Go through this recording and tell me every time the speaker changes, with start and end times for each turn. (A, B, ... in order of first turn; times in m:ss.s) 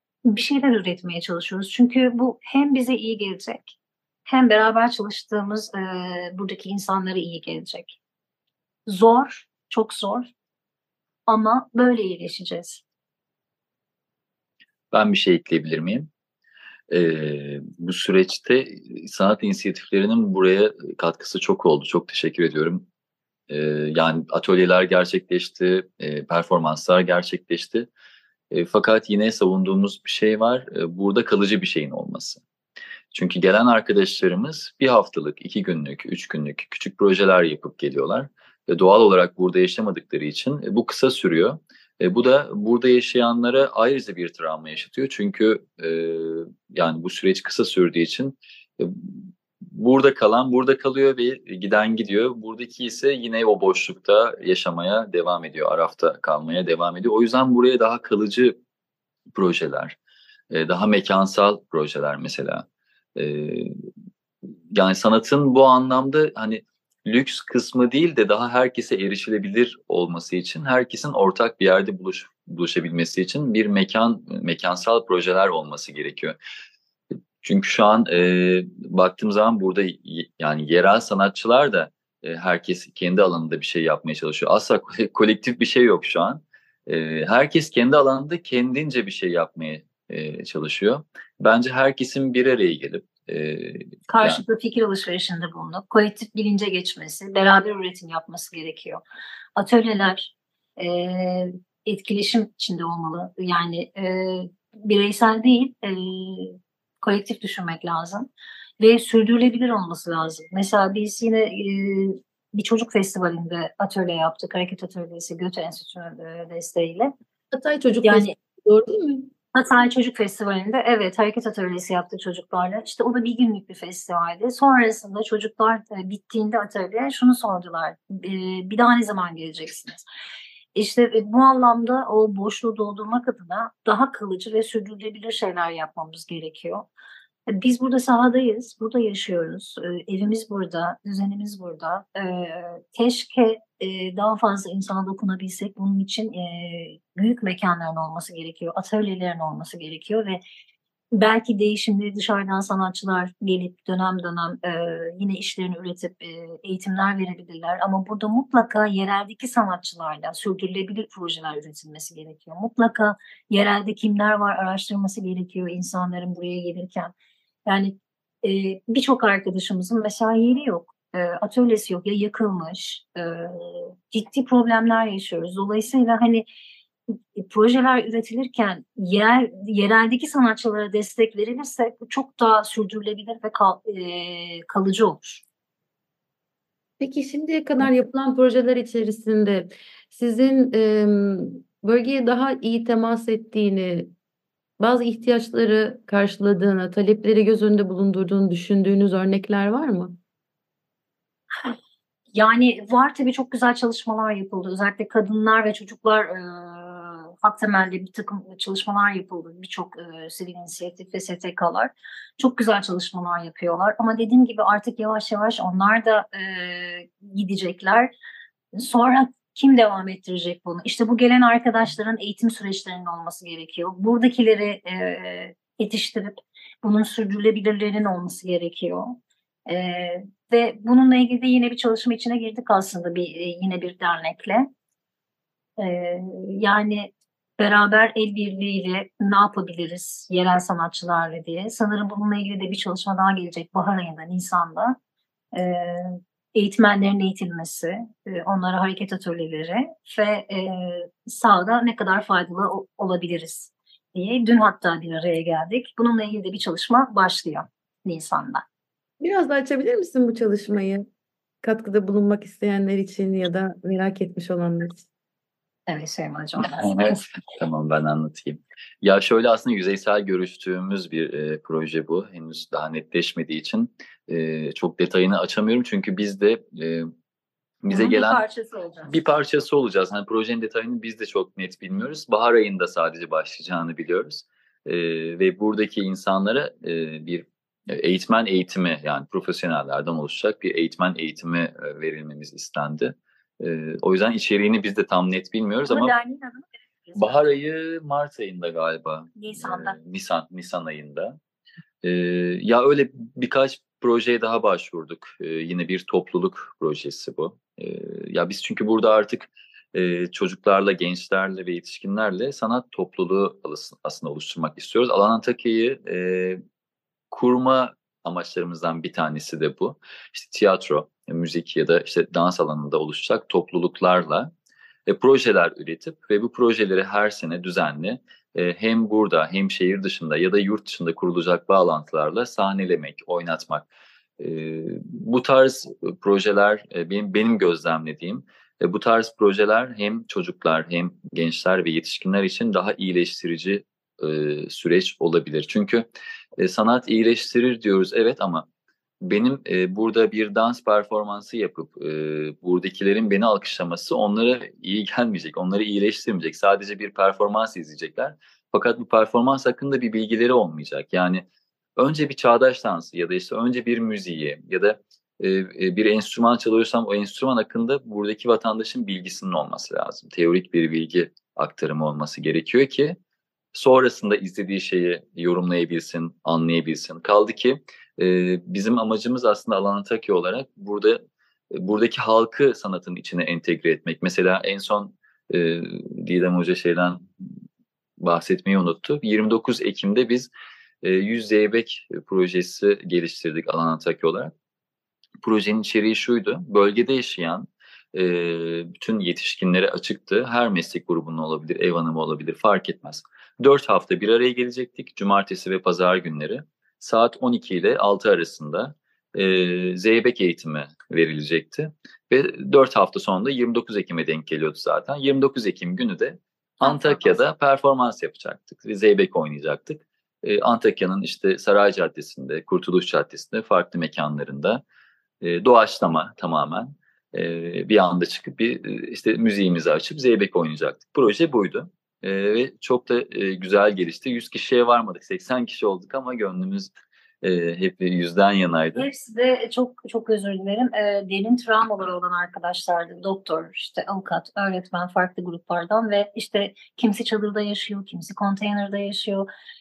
0:00.2-0:08.0 A
0:08.9-0:10.3 A
0:11.3-0:12.8 A
0:14.9-0:16.1 B
0:16.9-0:22.8 B
0:23.5-0:27.9 B
0:28.5-0:32.4 B
0:33.1-0:58.6 B
0:59.3-1:00.0 B
1:00.5-1:03.7 B
1:04.7-1:16.4 B
1:17.4-1:34.4 B
1:34.1-1:39.0 A
1:39.6-1:48.3 A
1:48.8-1:57.1 A
1:57.5-1:59.3 C
1:58.0-1:58.3 A
1:59.5-2:10.0 A
2:10.8-2:16.9 A
2:17.5-2:30.4 A
2:31.1-2:47.1 A
2:47.6-2:56.5 A
2:57.1-3:05.4 A
3:07.0-3:14.1 C
3:14.8-3:20.2 C
3:22.3-3:38.1 A
3:38.8-3:54.7 A
3:55.8-4:05.0 A
4:05.5-4:18.6 A
4:19.2-4:21.0 C
4:21.6-4:25.0 C
4:25.9-4:27.2 A
4:26.7-4:37.1 B
4:37.8-4:38.4 B
4:37.9-4:39.2 A
4:39.1-4:56.1 B
4:55.8-4:57.5 A
4:57.2-5:01.4 B
4:59.4-5:00.0 A
5:02.0-5:16.6 B
5:17.3-5:24.5 B
5:25.1-5:33.8 B
5:34.4-5:46.0 B
5:46.6-5:48.6 B
5:49.2-6:01.4 B
6:02.0-6:13.2 B
6:13.7-6:21.2 B
6:21.7-6:27.2 B
6:28.2-6:30.5 B
6:31.0-6:34.5 B
6:35.4-7:04.8 B
6:56.8-6:57.4 A
7:05.4-7:16.9 B
7:17.4-7:19.1 B
7:19.0-7:29.5 A